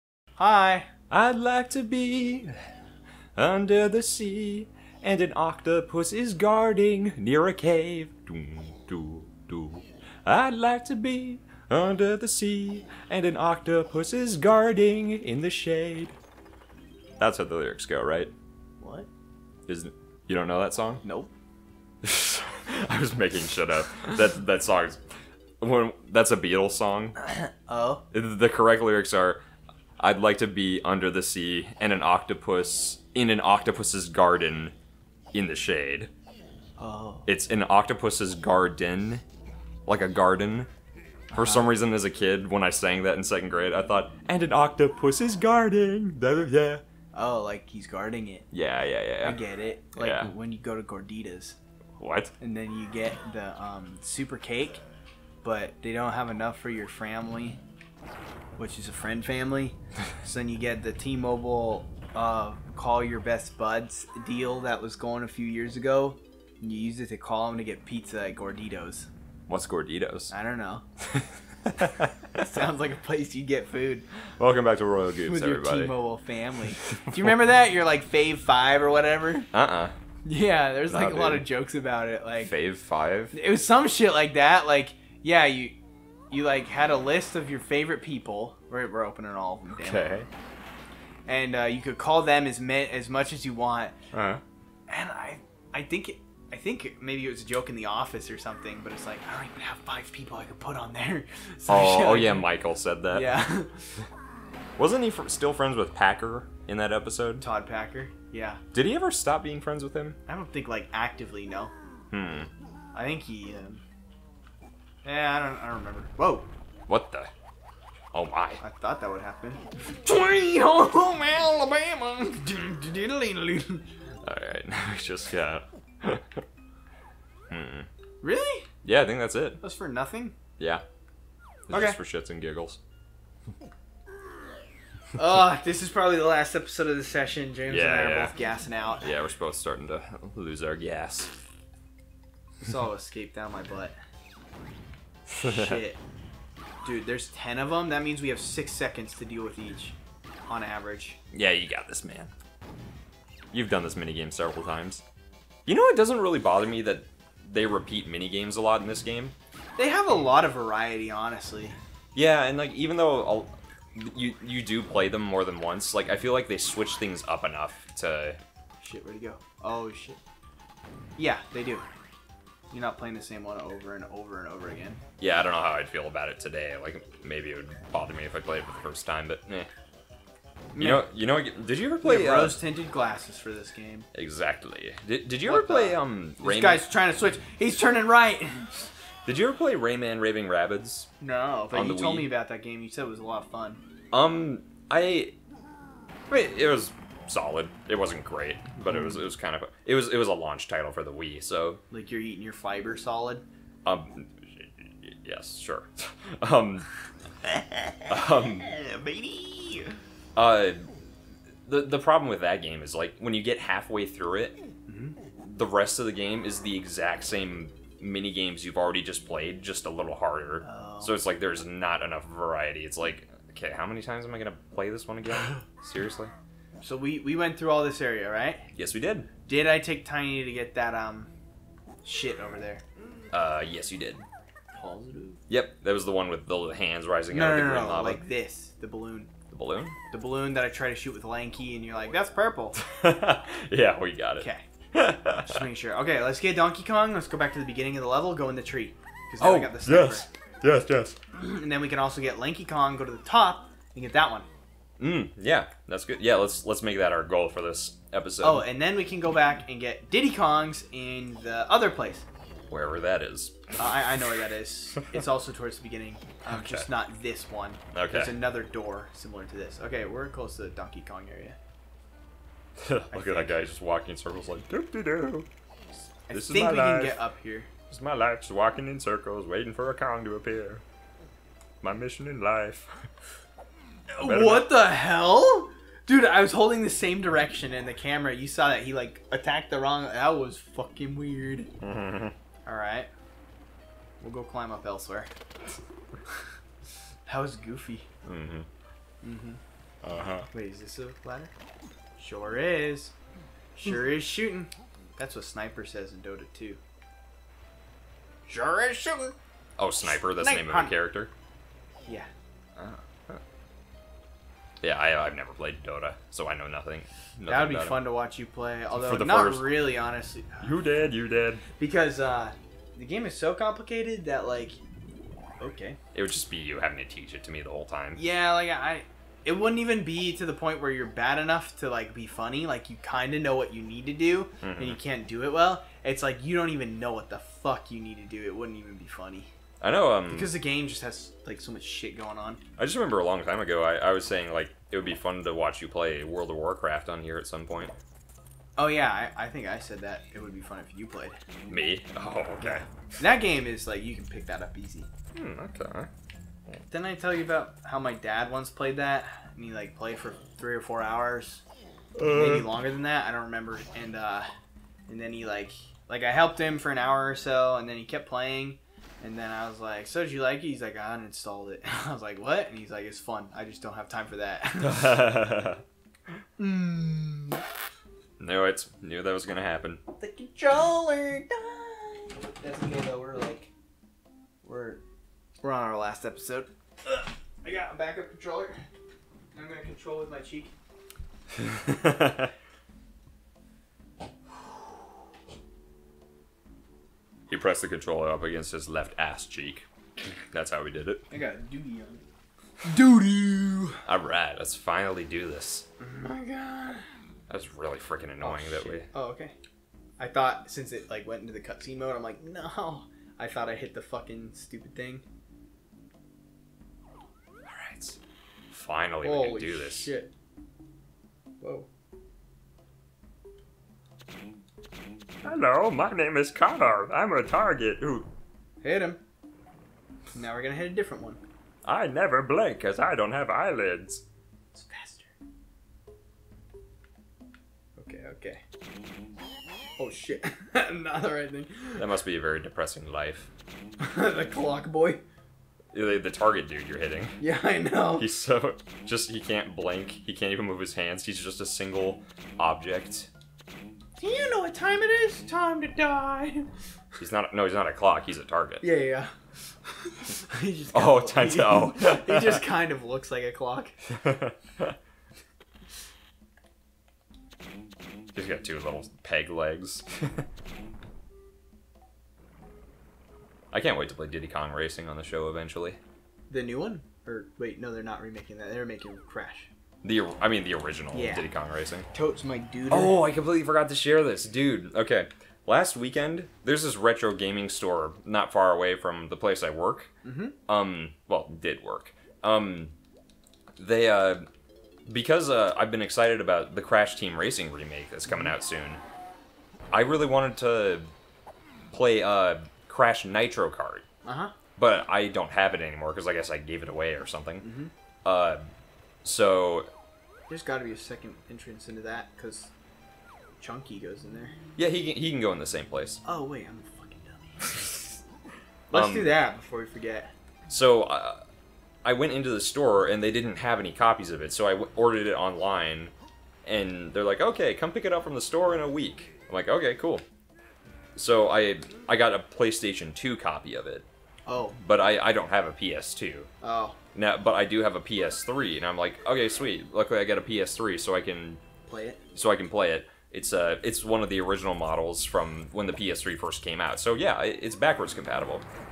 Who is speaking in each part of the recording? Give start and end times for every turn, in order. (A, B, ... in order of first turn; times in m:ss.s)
0:00.4-0:00.9 A
0:01.1-0:02.5 B
0:03.4-0:16.2 B
0:17.2-0:18.3 B
0:18.8-0:19.1 A
0:19.7-0:21.0 B
0:21.0-0:21.3 A
0:22.0-0:25.0 B
0:25.6-0:27.2 B
0:27.2-0:28.0 A
0:28.1-0:29.4 B
0:30.0-0:34.7 B
0:35.3-0:36.1 B
0:36.8-0:37.3 A
0:37.2-0:39.2 B
0:39.9-0:40.7 B
0:41.3-0:41.7 A
0:41.3-0:46.8 B
0:47.1-0:48.4 A
0:48.5-0:49.4 B
0:49.2-0:51.6 A
0:50.0-0:50.3 B
0:52.0-0:52.3 B
0:52.4-0:54.8 A
0:55.4-0:57.6 A
0:58.6-1:09.1 A
1:09.5-1:10.3 B
1:10.3-1:10.8 A
1:11.0-1:12.4 B
1:12.3-1:14.0 A
1:14.4-1:15.9 B
1:15.2-1:19.5 A
1:16.8-1:17.4 B
1:19.5-1:20.0 B
1:20.2-1:22.5 A
1:20.9-1:21.4 B
1:22.4-1:23.4 B
1:23.3-1:25.7 A
1:26.3-1:30.2 A
1:29.8-1:30.3 B
1:31.3-1:33.9 A
1:34.1-1:34.4 B
1:34.9-1:42.5 A
1:41.7-1:43.4 B
1:43.1-1:43.9 A
1:44.8-1:47.4 B
1:47.4-1:48.6 A
1:48.7-1:50.2 B
1:50.3-1:51.7 A
1:52.1-1:52.5 B
1:52.9-1:53.8 A
1:55.0-1:56.5 A
1:56.9-1:57.3 B
1:58.1-1:58.6 B
1:58.6-2:03.8 A
2:04.2-2:06.4 B
2:07.5-2:07.9 B
2:08.2-2:08.7 A
2:08.8-2:09.6 B
2:09.6-2:10.3 A
2:10.6-2:10.8 B
2:11.7-2:12.8 B
2:11.7-2:12.0 A
2:15.1-2:19.0 A
2:17.7-2:18.3 B
2:19.0-2:21.3 B
2:22.6-2:23.9 A
2:25.3-2:25.8 B
2:25.4-2:26.0 A
2:26.8-2:30.0 A
2:30.5-2:31.2 A
2:31.3-2:32.3 B
2:33.5-2:35.0 B
2:35.6-2:39.3 B
2:39.8-2:41.8 A
2:42.1-2:48.4 B
2:48.8-2:50.2 A
2:51.2-2:51.9 A
2:52.7-2:55.0 A
2:55.2-2:59.7 B
3:00.7-3:01.0 A
3:00.8-3:02.6 B
3:02.0-3:04.0 A
3:04.1-3:06.8 B
3:05.4-3:08.9 A
3:09.2-3:11.1 B
3:11.2-3:13.8 A
3:11.7-3:12.3 B
3:14.1-3:15.4 B
3:16.3-3:21.8 B
3:21.9-3:23.4 A
3:23.8-3:26.9 B
3:27.7-3:29.9 A
3:28.1-3:28.7 B
3:30.4-3:30.9 B
3:31.6-3:34.6 B
3:34.9-3:35.2 A
3:35.4-3:46.3 B
3:40.6-3:41.2 A
3:46.8-3:48.6 A
3:48.7-3:49.3 B
3:49.4-3:51.3 A
3:52.0-3:52.8 A
3:53.3-3:54.2 B
3:54.7-3:55.4 A
3:55.5-3:58.2 B
3:57.3-3:59.3 A
3:59.5-4:00.0 B
4:00.1-4:02.8 A
4:02.8-4:05.6 B
4:04.4-4:04.6 A
4:05.3-4:10.3 A
4:09.4-4:11.2 B
4:11.3-4:14.5 A
4:15.0-4:18.6 B
4:18.4-4:22.2 A
4:22.7-4:23.7 B
4:23.8-4:31.6 A
4:26.5-4:26.9 B
4:27.9-4:28.3 B
4:32.8-4:35.5 B
4:33.1-4:33.6 A
4:36.3-4:37.7 A
4:36.3-4:37.2 B
4:37.9-4:40.8 B
4:41.8-4:42.9 B
4:44.1-4:51.7 A
4:44.2-4:44.8 B
4:51.8-4:52.3 B
4:52.6-4:53.1 A
4:54.2-4:55.3 A
4:57.2-4:58.1 A
4:58.2-4:58.7 B
4:59.2-4:59.6 A
5:00.0-5:00.5 B
5:00.5-5:01.5 A
5:02.2-5:03.1 A
5:03.8-5:06.8 A
5:08.5-5:09.3 A
5:09.8-5:11.3 B
5:10.0-5:10.9 A
5:12.8-5:13.4 B
5:14.8-5:18.0 B
5:17.5-5:20.8 A
5:18.9-5:19.8 B
5:20.6-5:21.6 B
5:21.8-5:24.8 A
5:25.6-5:26.0 A
5:26.1-5:28.2 B
5:28.2-5:39.5 A
5:34.6-5:35.0 B
5:39.8-5:40.5 B
5:40.3-5:42.6 A
5:42.8-5:47.9 B
5:48.8-5:51.4 A
5:51.7-5:52.8 B
5:52.6-5:55.1 A
5:55.3-5:56.1 B
5:56.9-6:01.6 A
6:02.2-6:02.7 B
6:02.2-6:04.5 A
6:05.1-6:15.2 A
6:14.8-6:15.8 B
6:16.6-6:17.6 A
6:18.4-6:20.0 B
6:20.2-6:23.7 A
6:24.6-6:25.0 A
6:25.6-6:28.8 A
6:29.5-6:30.7 A
6:31.6-6:32.5 B
6:37.5-6:39.8 B
6:40.5-6:41.2 B
6:41.3-6:42.2 A
6:42.8-6:44.0 A
6:44.0-6:45.8 B
6:46.0-6:47.1 A
6:47.5-6:49.1 B
6:48.4-6:49.6 A
6:50.2-6:55.2 A
6:57.7-6:58.2 B
6:58.7-7:00.1 B
6:59.2-7:00.3 A
7:01.6-7:01.9 A
7:05.4-7:08.3 B
7:08.8-7:09.2 A
7:10.3-7:11.4 A
7:11.8-7:14.2 B
7:14.7-7:15.3 A
7:18.0-7:18.6 A
7:20.0-7:22.1 A
7:22.0-7:23.5 B
7:24.0-7:25.2 A
7:25.9-7:27.4 B
7:27.4-7:28.3 A
7:28.2-7:33.3 B
7:34.2-7:36.7 A
7:37.2-7:38.8 B
7:38.8-7:39.3 A
7:39.9-7:44.0 A
7:40.9-7:42.6 B
7:44.1-7:45.0 B
7:48.3-7:50.5 B
7:53.7-7:56.0 B
7:56.5-7:59.7 A
8:00.0-8:02.1 B
8:01.1-8:01.4 A
8:02.1-8:03.2 A
8:02.9-8:10.1 B
8:10.2-8:10.6 A
8:10.7-8:12.9 B
8:13.8-8:14.5 B
8:15.1-8:19.0 B
8:18.3-8:18.5 A
8:19.9-8:21.1 B
8:21.9-8:24.0 B
8:24.2-8:24.5 A
8:24.8-8:27.6 B
8:27.6-8:27.9 A
8:28.2-8:28.6 B
8:29.2-8:29.9 B
8:30.5-8:32.7 A
8:33.6-8:34.6 A
8:34.8-8:36.2 B
8:36.2-8:38.1 A
8:38.9-8:40.3 A
8:38.9-8:39.3 B
8:40.7-8:41.4 B
8:42.0-8:46.1 B
8:46.6-8:50.2 B
8:51.2-8:54.0 B
8:54.4-8:54.8 A
8:54.8-8:56.5 B
8:56.6-8:57.0 A
8:57.1-9:01.6 B
9:01.8-9:02.2 A
9:02.3-9:08.6 B